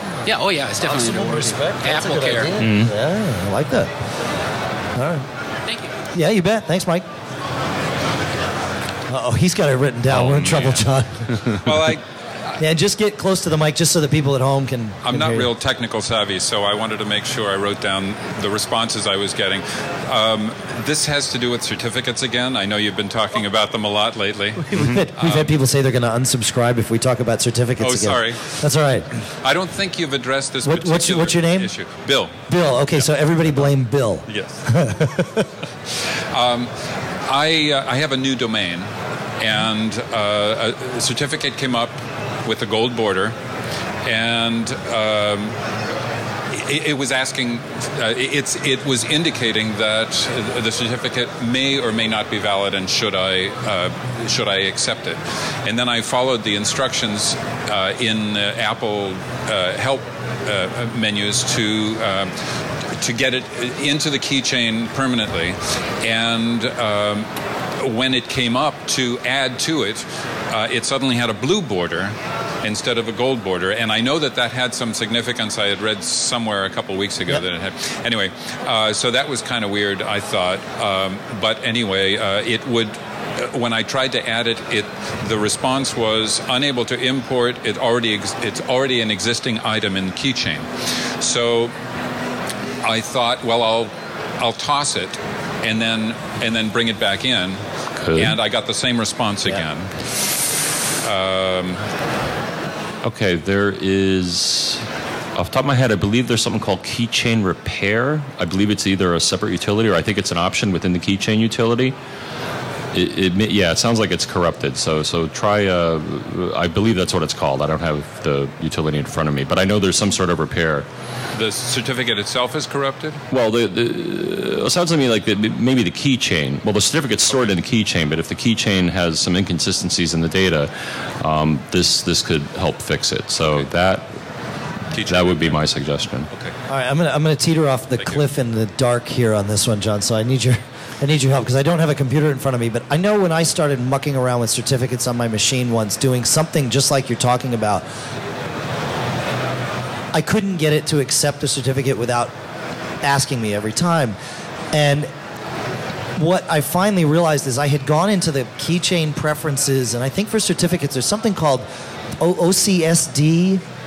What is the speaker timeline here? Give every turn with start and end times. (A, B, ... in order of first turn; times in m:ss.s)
0:00.2-0:02.6 A
0:00.8-0:03.9 B
0:02.6-0:02.9 C
0:05.0-0:05.2 B
0:05.7-0:05.9 A
0:06.1-0:07.0 B
0:09.1-0:11.6 B
0:10.1-0:11.8 C
0:11.6-0:12.0 D
0:12.6-0:15.5 B
0:15.0-0:25.5 D
0:24.7-0:29.1 B
0:27.8-0:28.6 D
0:29.4-0:33.7 D
0:30.6-0:31.7 B
0:32.5-0:35.5 B
0:34.3-0:34.6 D
0:36.3-0:36.7 D
0:37.2-0:38.9 D
0:39.4-0:43.4 D
0:44.0-0:45.6 D
0:46.5-1:02.3 D
1:03.0-1:31.7 D
1:32.8-1:37.6 D
1:38.0-1:38.4 C
1:38.1-1:39.9 D
1:41.0-1:41.9 D
1:43.0-1:44.8 C
1:45.3-1:52.0 C
1:52.9-2:00.9 C
2:01.3-2:03.2 D
2:03.3-2:14.1 C
2:14.9-2:15.6 D
2:15.0-2:16.3 C
2:16.7-2:27.8 B
2:30.1-2:32.3 B
2:33.0-2:34.2 B
2:34.7-2:35.1 B
2:36.2-2:41.6 B
2:42.2-2:43.6 B